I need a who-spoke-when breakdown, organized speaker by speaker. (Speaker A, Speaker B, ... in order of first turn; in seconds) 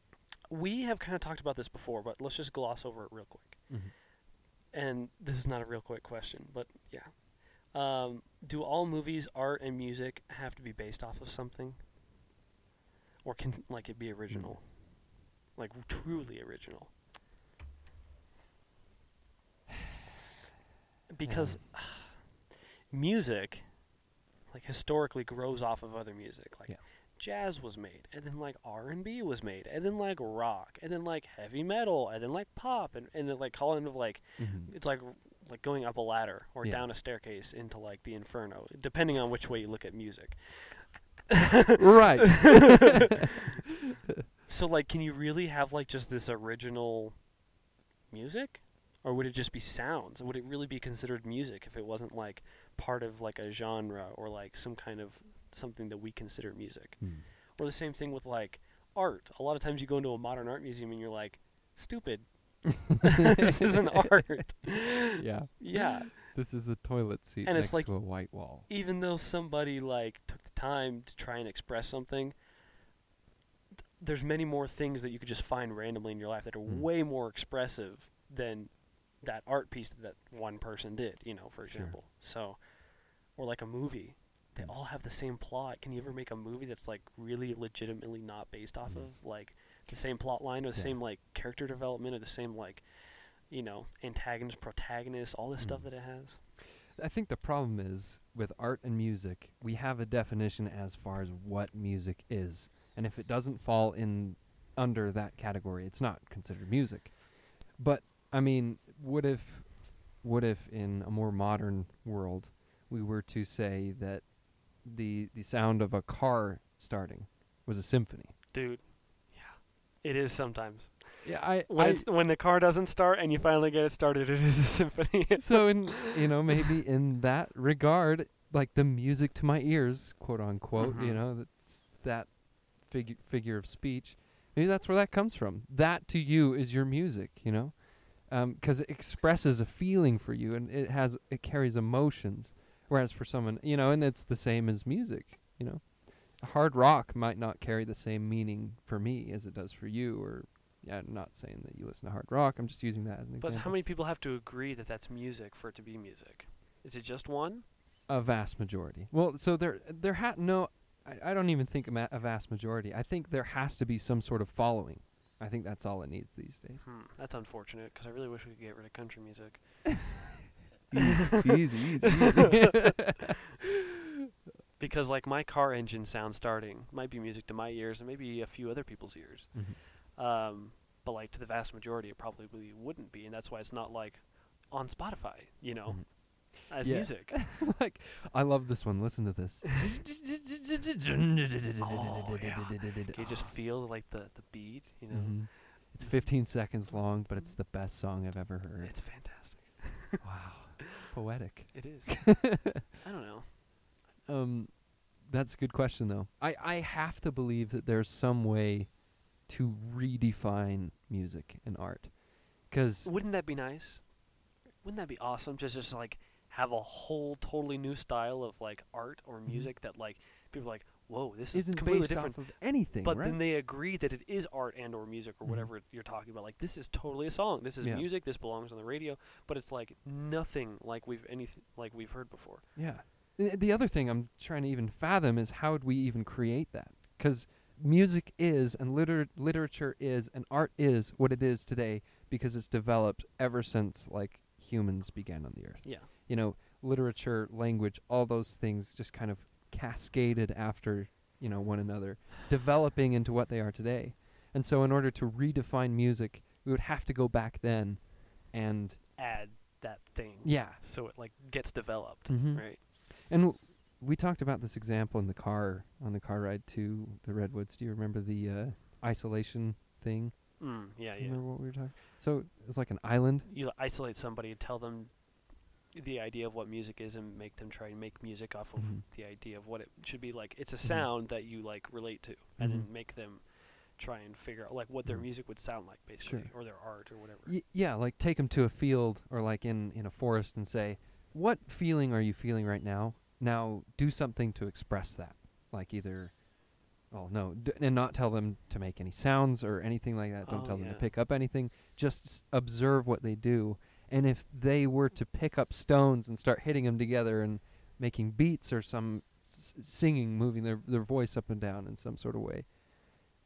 Speaker A: 0.5-4.0, 4.7-11.8, 13.2-16.9, 21.1-22.3, 22.9-23.7, 24.5-43.4, 44.4-47.2, 48.1-66.3, 67.4-72.3, 74.0-82.6, 83.3-96.4, 118.5-126.3, 130.8-131.2, 153.4-157.6, 166.8-170.2, 172.1-172.7, 174.8-187.4, 191.8-196.2, 198.8-200.2, 201.7-203.5, 213.0-214.1, 214.8-232.7, 245.8-246.1, 259.2-262.8, 270.6-271.4, 273.4-275.2, 275.9-287.6, 300.4-301.1
Speaker B: 3.7-3.9, 14.3-14.6, 21.2-21.6, 34.4-34.7, 41.8-43.1, 57.0-57.3, 63.2-64.0, 65.1-68.7, 81.7-82.0, 95.6-95.9, 96.9-118.3, 121.2-122.1, 125.4-153.7, 158.1-166.8, 170.9-173.7, 185.9-193.5, 195.1-199.0, 200.2-202.8, 204.2-208.9, 209.4-213.1, 221.5-223.4, 227.8-228.1, 232.7-259.0, 260.4-260.8, 262.3-273.5, 278.8-279.0, 280.8-281.1, 282.6-282.9, 285.1-285.5, 286.2-296.4, 297.1-312.7